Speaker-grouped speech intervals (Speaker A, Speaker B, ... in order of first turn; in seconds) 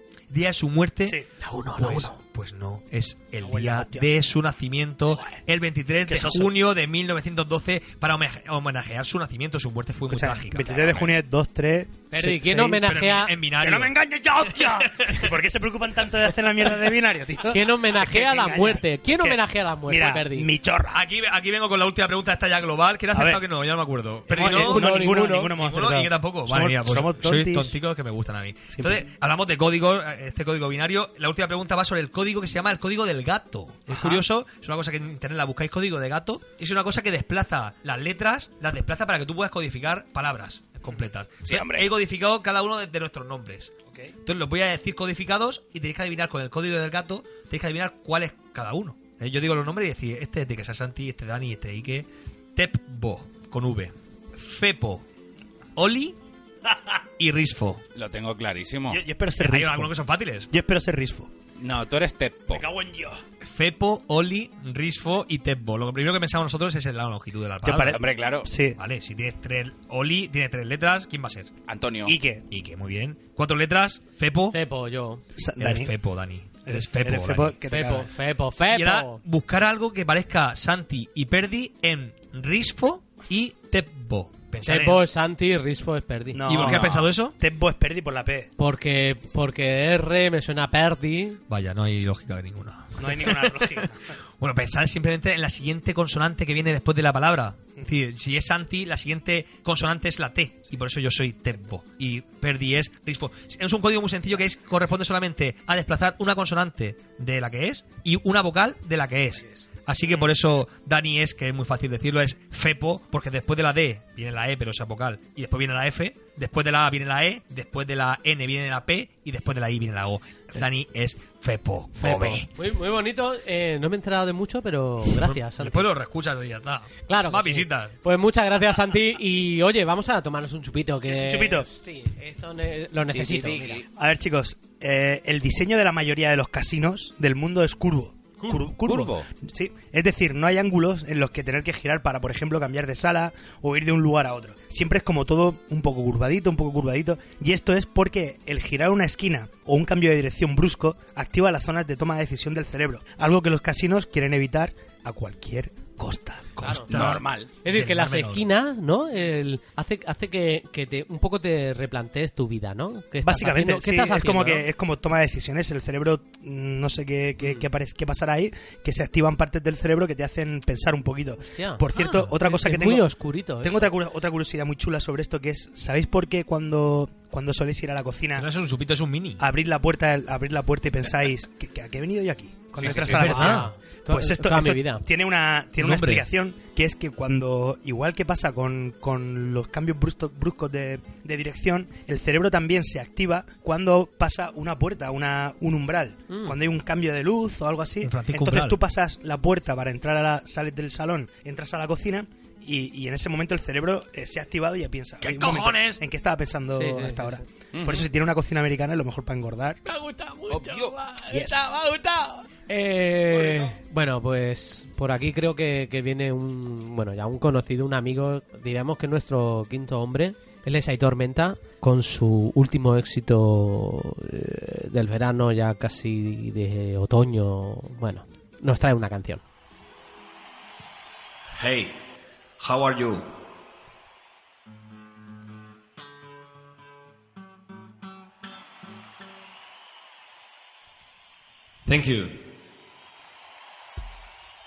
Speaker A: 0.3-1.2, 1.8-11.1, 12.8-15.3, 20.9-24.9, 25.5-43.7, 44.2-55.0, 55.8-56.2, 57.2-57.8, 59.4-60.5, 63.4-68.0, 68.8-71.5, 72.5-74.6, 75.6-77.6, 78.7-85.0, 86.5-87.3, 91.5-122.5, 125.1-127.9, 156.7-158.4, 178.3-179.4, 182.8-183.7, 185.8-186.2, 198.0-198.8, 205.2-206.0, 231.6-231.9, 232.6-233.3, 241.8-242.4
Speaker B: 1.4-2.1, 12.1-13.3, 17.5-20.5, 24.3-25.5, 74.5-75.2, 77.7-79.2, 84.7-86.8, 88.6-91.4, 122.0-125.9, 127.1-133.8, 156.6-156.9, 157.6-164.7, 171.5-173.9, 182.9-185.0, 185.8-186.2, 196.3-196.6, 206.7-207.4, 209.8-229.4
Speaker C: 3.4-4.1, 6.1-6.5, 10.1-12.8, 13.6-21.0, 23.1-23.4, 24.3-27.7, 28.7-29.0, 33.9-34.2, 58.9-59.9, 60.5-61.3, 62.5-63.2, 67.6-68.8, 72.0-72.4, 75.3-75.9, 76.7-78.1, 86.3-88.5, 93.0-94.0, 131.1-131.7, 134.0-156.8, 163.2-173.1, 173.6-178.5, 179.4-209.8, 211.3-211.7
Speaker D: 41.4-41.9, 57.9-59.0, 61.6-62.6, 67.7-68.5, 71.7-72.2, 133.1-133.8, 138.5-139.3, 156.9-157.5, 182.8-183.1, 207.7-208.1, 210.5-210.9